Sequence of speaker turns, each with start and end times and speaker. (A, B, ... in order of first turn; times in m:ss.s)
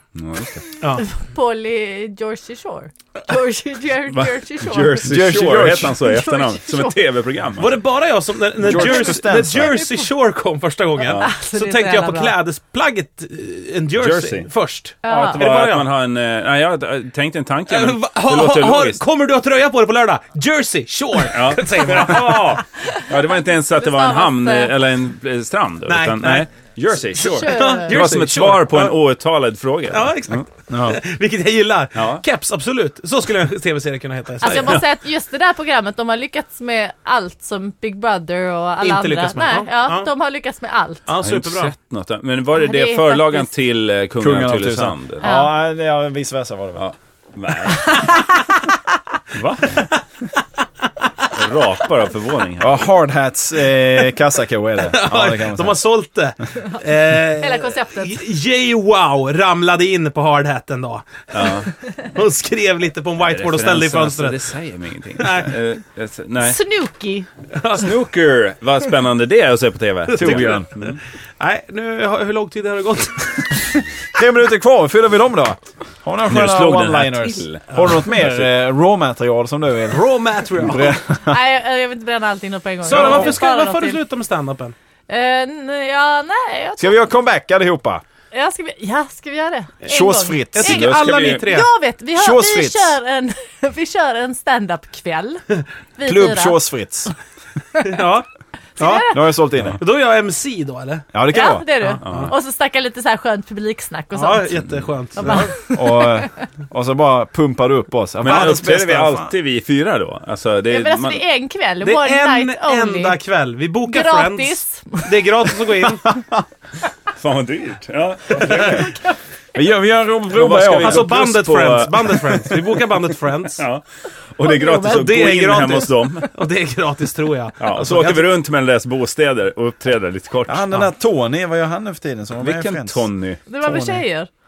0:00.1-0:00.7 A
0:01.0-0:05.0 B
0:04.1-0:07.8 A
0:05.0-0:05.9 C
0:06.0-0:07.0 B
0:07.6-0:15.9 D
0:08.6-0:09.8 C
0:11.1-0:12.3 B
0:14.0-0:14.5 A
0:15.0-0:15.4 B
0:15.0-0:19.0 A
0:17.7-0:22.6 D
0:21.3-0:30.4 A
0:23.8-0:24.7 B
0:25.9-0:26.5 D
0:27.2-0:28.0 B
0:27.4-0:29.0 D
0:29.9-0:34.8 D
0:30.7-0:31.0 C
0:31.9-0:32.2 A
0:34.4-0:41.0 B
0:38.8-0:40.1 D
0:41.1-0:41.7 D
0:41.2-0:45.2 A
0:42.6-0:43.5 B
0:44.2-0:46.8 C
0:45.2-0:45.5 B
0:46.8-0:48.2 A
0:47.8-0:48.4 B
0:49.3-0:49.8 A
0:51.3-0:52.8 A
0:52.6-0:55.8 C
0:54.8-1:04.4 D
0:57.4-0:58.2 B
1:01.3-1:01.7 A
1:03.2-1:06.6 A
1:05.2-1:05.5 D
1:06.4-1:07.3 B
1:07.5-1:08.0 D
1:07.7-1:11.0 A
1:10.1-1:10.6 D
1:10.2-1:10.7 C
1:11.4-1:13.8 D
1:14.1-1:20.1 C
1:16.3-1:18.5 A
1:19.9-1:21.0 D
1:20.6-1:21.4 C
1:21.2-1:24.0 B
1:22.8-1:24.7 D
1:22.9-1:23.3 C
1:25.1-1:27.0 B
1:26.8-1:28.0 C
1:28.3-1:35.4 B
1:29.9-1:30.8 C
1:30.5-1:31.7 D
1:30.6-1:31.5 A
1:32.2-1:32.9 C
1:36.0-1:36.6 B
1:36.0-1:37.1 C
1:37.8-1:38.3 D
1:38.8-1:39.2 B
1:38.8-1:39.2 D
1:39.1-1:39.8 C
1:39.8-1:41.1 D
1:41.1-1:41.7 C
1:41.3-1:44.5 B
1:41.9-1:42.3 D
1:42.0-1:42.3 A
1:44.1-1:45.6 D
1:44.6-1:44.8 A
1:45.2-1:46.3 B
1:45.7-1:49.3 C
1:48.2-1:51.2 A
1:50.7-1:53.2 B
1:51.8-1:56.1 D
1:53.8-1:55.1 B
1:57.1-1:58.9 A
1:58.3-1:58.9 D
1:59.5-2:01.1 C
2:00.3-2:02.7 A
2:00.8-2:03.6 D
2:03.6-2:03.8 A
2:04.3-2:06.3 A
2:04.4-2:05.1 B
2:04.8-2:08.2 D
2:07.6-2:10.9 A
2:10.5-2:13.0 C
2:12.4-2:13.4 A
2:13.4-2:14.3 B
2:13.6-2:14.0 C